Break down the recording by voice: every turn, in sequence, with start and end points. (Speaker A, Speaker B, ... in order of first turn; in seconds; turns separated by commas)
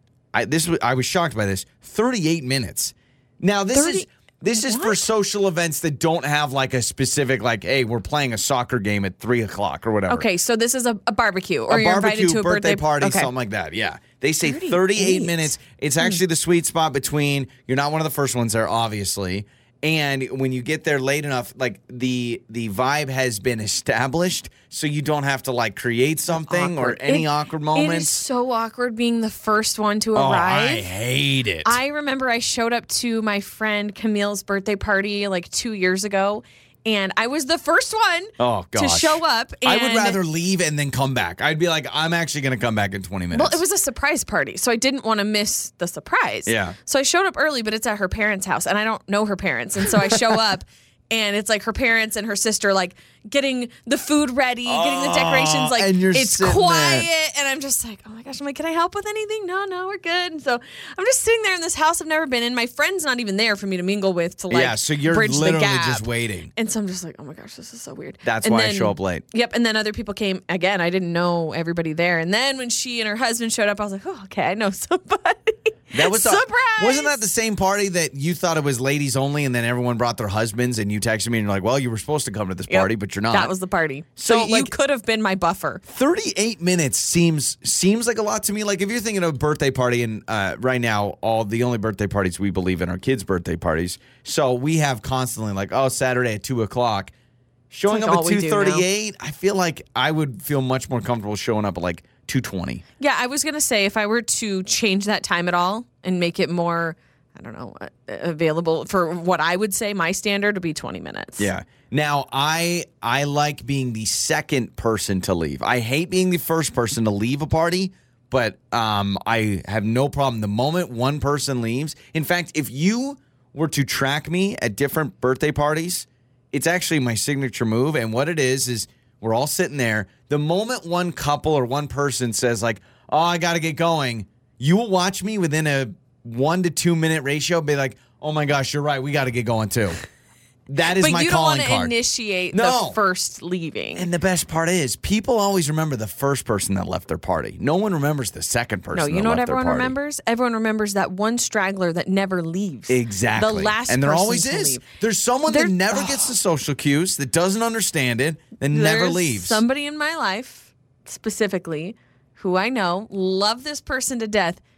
Speaker A: 0.3-10.3, Speaker B: 3.7-5.0, Speaker B: 10.1-13.3, Speaker A: 11.7-28.3, Speaker B: 14.4-16.2, Speaker B: 26.4-30.9, Speaker A: 30.1-31.8, Speaker B: 31.6-40.2, Speaker A: 38.4-43.6, Speaker B: 43.3-77.2, Speaker A: 46.5-46.8, Speaker A: 50.0-50.4, Speaker A: 54.6-57.1, Speaker A: 64.5-66.5, Speaker A: 68.2-69.2, Speaker A: 75.9-83.5, Speaker B: 82.7-85.8, Speaker A: 84.2-84.7, Speaker A: 85.8-97.1, Speaker A: 97.7-102.8, Speaker B: 97.9-98.9, Speaker B: 103.0-111.5, Speaker A: 111.4-140.0, Speaker A: 140.7-141.9, Speaker B: 141.0-144.1, Speaker A: 142.5-143.0, Speaker A: 143.9-149.9, Speaker B: 148.9-154.8, Speaker A: 152.9-159.6, Speaker B: 155.5-156.3, Speaker B: 158.7-164.6